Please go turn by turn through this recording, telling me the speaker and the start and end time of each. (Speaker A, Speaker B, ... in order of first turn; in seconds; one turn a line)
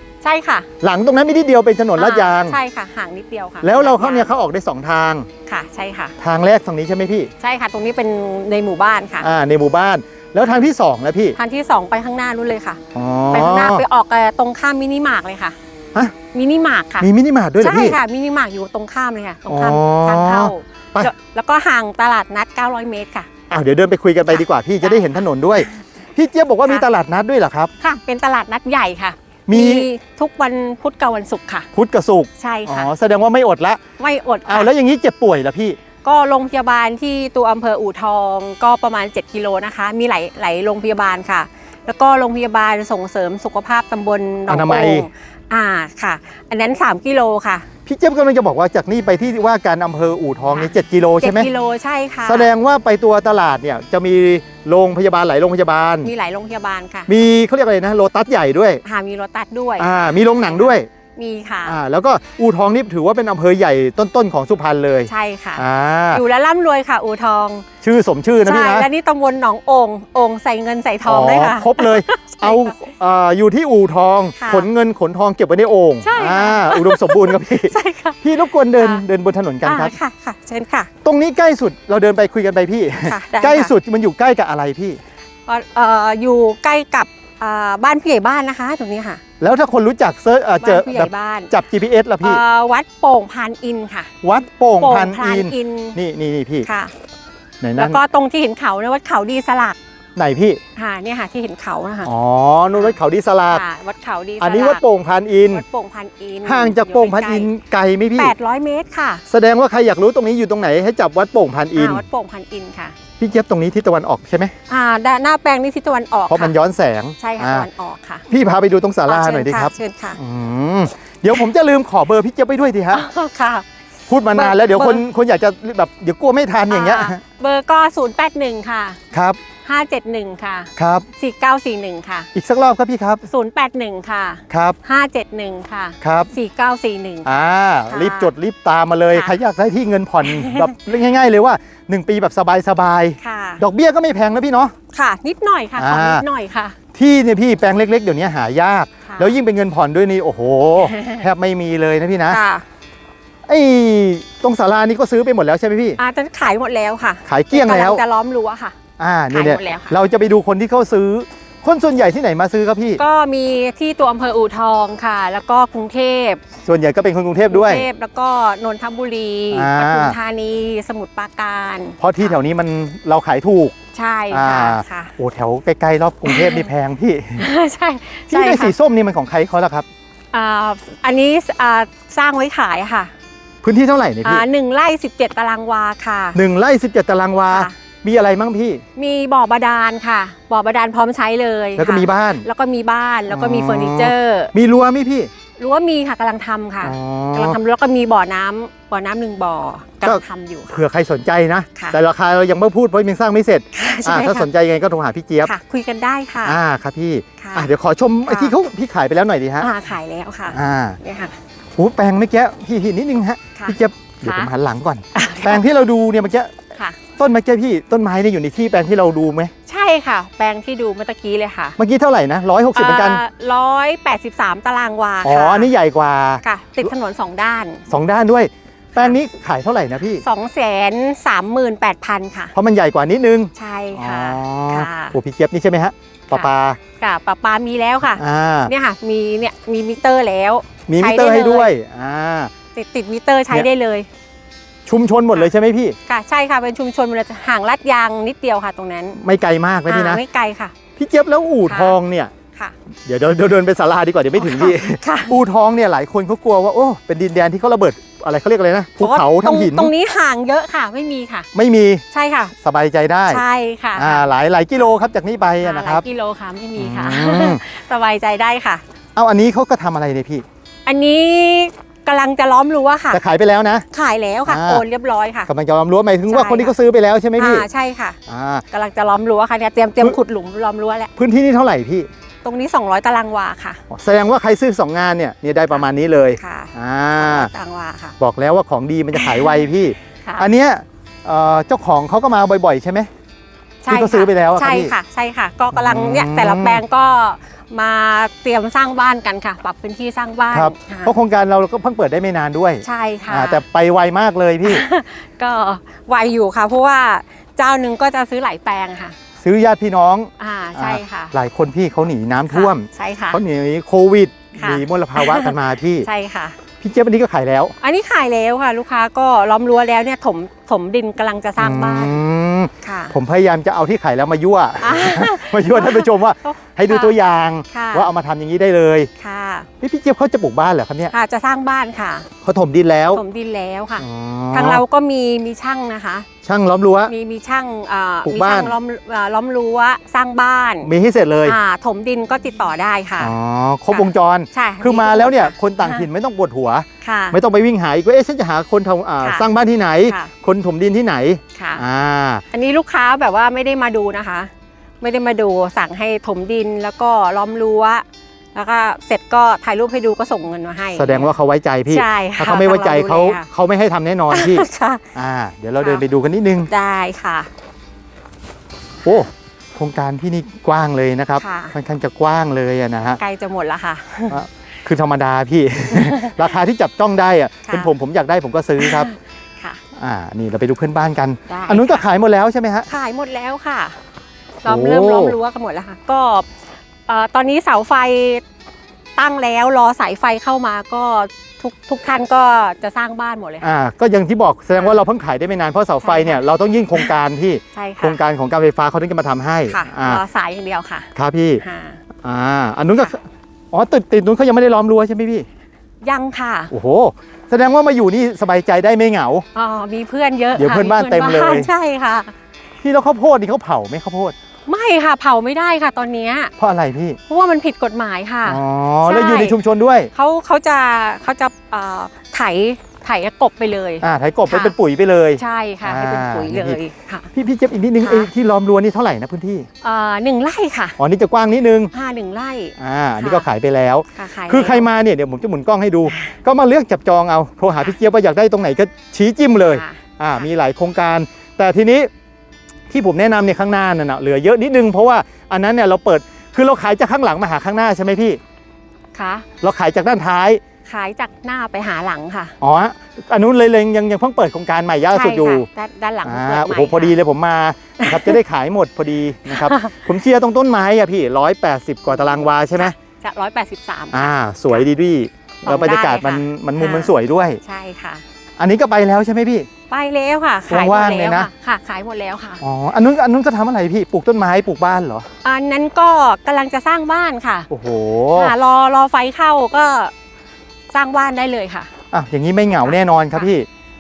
Speaker A: 0.2-0.7
Speaker B: 0.8-2.6
Speaker A: 2.0-4.3
Speaker B: 3.6-5.3
Speaker A: 5.5-6.2
Speaker B: 6.2-7.3
Speaker A: 7.4-9.3
Speaker B: 9.2-11.4
Speaker A: 11.4-12.8
Speaker B: 12.9-13.8
Speaker A: 13.3-15.6
Speaker A: 16.3-23.3
Speaker B: 17.0-18.0
Speaker B: 19.5-21.1
Speaker B: 23.5-27.7
Speaker A: 24.3-25.8
Speaker A: 27.8-31.7
Speaker B: 29.5-29.9
Speaker B: 31.7-33.8
Speaker A: 32.4-32.9
Speaker A: 34.0-34.7
Speaker B: 34.5-35.8
Speaker A: 36.0-47.7
Speaker B: 44.5-45.1
Speaker B: 47.9-51.5
Speaker A: 50.5-52.5
Speaker B: 52.2-56.1
Speaker A: 56.0-57.1
Speaker B: 57.1-58.8
Speaker A: 58.9-61.8
Speaker B: 59.8-60.9
Speaker B: 61.6-66.2
Speaker A: 65.1-67.7
Speaker B: 67.8-68.9
Speaker A: 68.4-72.8
Speaker B: 71.0-80.0
Speaker A: 74.4-74.7
Speaker A: 76.0-79.0
Speaker A: 79.6-80.9
Speaker B: 81.0-85.0
Speaker A: 83.0-83.7
Speaker A: 85.5-89.2
Speaker B: 89.4-92.4
Speaker A: 90.6-91.5
Speaker A: 92.2-94.1
Speaker B: 94.2-96.7
Speaker A: 94.8-96.0
Speaker A: 96.6-96.9
Speaker B: 97.6-98.0
Speaker A: 97.8-99.8
Speaker B: 100.2-100.6
Speaker A: 100.8-102.1
Speaker B: 102.0-103.6
Speaker A: 103.5-104.8
Speaker B: 104.4-105.6
Speaker A: 105.5-107.5
Speaker B: 106.5-108.3
Speaker A: 108.2-109.2
Speaker B: 109.3-112.0
Speaker A: 111.8-113.0
Speaker B: 113.2-114.5
Speaker A: 114.7-116.5
Speaker B: 116.3-117.7
Speaker A: 117.2-118.3
Speaker B: 118.3-123.1
Speaker A: 119.1-120.2
Speaker A: 122.9-123.7
Speaker B: 124.1-127.2
Speaker A: 124.3-125.0
Speaker A: 126.7-129.0
Speaker B: 129.1-129.4
Speaker A: 129.7-132.3
Speaker B: 130.8-131.1
Speaker B: 132.3-133.3
Speaker A: 133.3-137.3
Speaker B: 134.5-134.8
Speaker B: 136.0-136.3
Speaker B: 137.2-144.7
Speaker A: 137.9-138.3
Speaker A: 140.2-140.7
Speaker A: 143.2-143.6
Speaker A: 144.9-146.8
Speaker B: 145.8-146.2
Speaker B: 146.9-152.4
Speaker A: 149.1-149.4
Speaker A: 150.8-151.3
Speaker A: 152.3-152.7
Speaker B: 153.5-156.0
Speaker A: 156.0-158.8
Speaker B: 157.2-158.0
Speaker B: 159.0-163.0
Speaker A: 159.3-160.0
Speaker A: 163.0-166.4
Speaker B: 166.6-167.9
Speaker A: 167.5-172.3
Speaker B: 169.5-170.2
Speaker B: 172.0-173.8
Speaker A: 173.9-175.1
Speaker B: 174.3-177.4
Speaker A: 176.2-176.7
Speaker A: 177.4-178.8
Speaker B: 178.3-179.9
Speaker A: 180.3-183.1
Speaker B: 183.6-184.4
Speaker A: 184.2-186.4
Speaker B: 186.3-188.8
Speaker A: 187.5-187.8
Speaker A: 189.0-194.5
Speaker B: 191.8-192.5
Speaker B: 193.3-195.3
Speaker A: 195.6-200.8
Speaker B: 196.8-197.6
Speaker B: 200.0-205.5
Speaker A: 203.7-204.5
Speaker A: 205.4-206.6
Speaker B: 206.4-209.7
Speaker A: 207.4-207.7
Speaker A: 208.3-208.6
Speaker A: 209.6-211.4
Speaker B: 210.5-211.0
Speaker B: 211.8-216.5
Speaker A: 213.6-214.5
Speaker A: 215.1-215.7
Speaker B: 217.2-219.5
Speaker A: 219.7-221.8
Speaker B: 221.8-223.2
Speaker A: 222.7-225.7
Speaker B: 225.2-226.9
Speaker A: 226.4-227.9
Speaker B: 227.9-230.2
Speaker A: 230.2-232.5
Speaker B: 232.5-236.8
Speaker A: 233.6-235.2
Speaker A: 237.0-241.7
Speaker B: 238.2-238.7
Speaker B: 240.9-242.5
Speaker A: 242.8-244.1
Speaker B: 244.9-246.0
Speaker A: 246.1-249.2
Speaker B: 249.2-250.2
Speaker A: 249.9-250.8
Speaker B: 251.0-252.3
Speaker A: 251.7-252.0
Speaker B: 253.1-259.9
Speaker A: 254.4-255.4
Speaker A: 259.0-261.5
Speaker B: 261.5-262.0
Speaker A: 262.1-262.5
Speaker B: 262.6-263.4
Speaker A: 263.3-264.3
Speaker B: 264.0-266.1
Speaker A: 265.6-268.8
Speaker B: 266.8-267.6
Speaker B: 269.2-270.4
Speaker A: 270.9-273.2
Speaker B: 273.1-273.9
Speaker A: 273.9-275.5
Speaker B: 274.5-274.8
Speaker B: 275.5-277.6
Speaker A: 276.3-276.8
Speaker A: 277.4-278.2
Speaker B: 278.3-278.6
Speaker A: 278.7-281.1
Speaker B: 281.2-282.1
Speaker A: 282.4-283.8
Speaker B: 283.9-287.5
Speaker A: 285.7-288.2
Speaker B: 288.2-293.1
Speaker A: 289.1-289.6
Speaker A: 293.8-301.1
Speaker B: 293.9-294.9
Speaker B: 295.7-296.8
Speaker B: 300.5-304.8
Speaker A: 302.8-303.6
Speaker A: 304.6-309.2
Speaker B: 309.4-316.1
Speaker A: 310.4-311.3
Speaker A: 312.5-313.4
Speaker A: 314.6-316.6
Speaker B: 316.8-317.8
Speaker A: 317.8-322.2
Speaker B: 321.6-329.1
Speaker A: 322.8-323.2
Speaker A: 324.8-327.1
Speaker A: 327.7-328.1
Speaker A: 329.2-329.7
Speaker B: 329.8-331.1
Speaker A: 331.1-332.3
Speaker B: 332.4-333.2
Speaker A: 333.1-336.3
Speaker B: 334.0-334.8
Speaker B: 336.4-337.1
Speaker A: 337.1-340.9
Speaker B: 338.2-338.7
Speaker B: 340.8-341.6
Speaker A: 341.4-343.3
Speaker B: 343.2-352.4
Speaker A: 343.9-346.1
Speaker A: 347.0-347.4
Speaker A: 349.2-349.5
Speaker A: 350.1-350.3
Speaker A: 351.6-351.8
Speaker A: 352.5-361.3
Speaker B: 360.9-366.7
Speaker A: 361.9-363.5
Speaker A: 364.3-365.1
Speaker A: 366.7-367.5
Speaker B: 369.1-373.2
Speaker A: 371.4-371.8
Speaker A: 373.2-374.4
Speaker B: 374.3-379.1
Speaker A: 375.9-376.5
Speaker A: 377.7-377.9
Speaker A: 378.8-379.8
Speaker B: 380.0-382.9
Speaker A: 381.5-382.1
Speaker A: 382.9-384.0
Speaker A: 384.6-386.5
Speaker B: 384.6-385.4
Speaker A: 387.1-388.4
Speaker A: 389.2-393.7
Speaker B: 393.6-400.2
Speaker A: 396.0-396.4
Speaker A: 397.8-398.2
Speaker A: 399.7-402.0
Speaker B: 401.1-401.6
Speaker B: 402.2-405.5
Speaker A: 406.0-406.7
Speaker B: 406.7-409.4
Speaker A: 409.6-412.3
Speaker B: 410.5-411.7
Speaker B: 412.8-414.4
Speaker A: 414.7-416.5
Speaker B: 416.6-417.2
Speaker A: 417.3-419.6
Speaker B: 418.4-420.1
Speaker A: 420.1-424.8
Speaker B: 424.0-426.8
Speaker A: 425.4-427.3
Speaker B: 427.3-429.7
Speaker A: 428.0-428.3
Speaker A: 429.8-431.0
Speaker B: 431.0-431.9
Speaker A: 431.9-433.5
Speaker B: 432.8-442.1
Speaker A: 434.1-434.9
Speaker A: 436.1-436.3
Speaker A: 439.6-440.0
Speaker B: 442.9-448.4
Speaker A: 449.1-449.5
Speaker B: 449.6-450.6
Speaker A: 450.9-452.6
Speaker B: 452.6-455.7
Speaker A: 455.1-457.2
Speaker B: 456.2-462.9
Speaker A: 458.0-458.4
Speaker A: 459.5-460.0
Speaker A: 462.1-464.9
Speaker B: 464.1-467.6
Speaker A: 465.6-468.2
Speaker B: 468.6-469.7
Speaker A: 469.9-472.6
Speaker B: 470.7-471.5
Speaker B: 472.6-475.3
Speaker A: 475.4-477.7
Speaker B: 477.7-478.5
Speaker A: 478.3-480.1
Speaker A: 480.9-481.9
Speaker B: 482.1-483.7
Speaker A: 482.8-483.5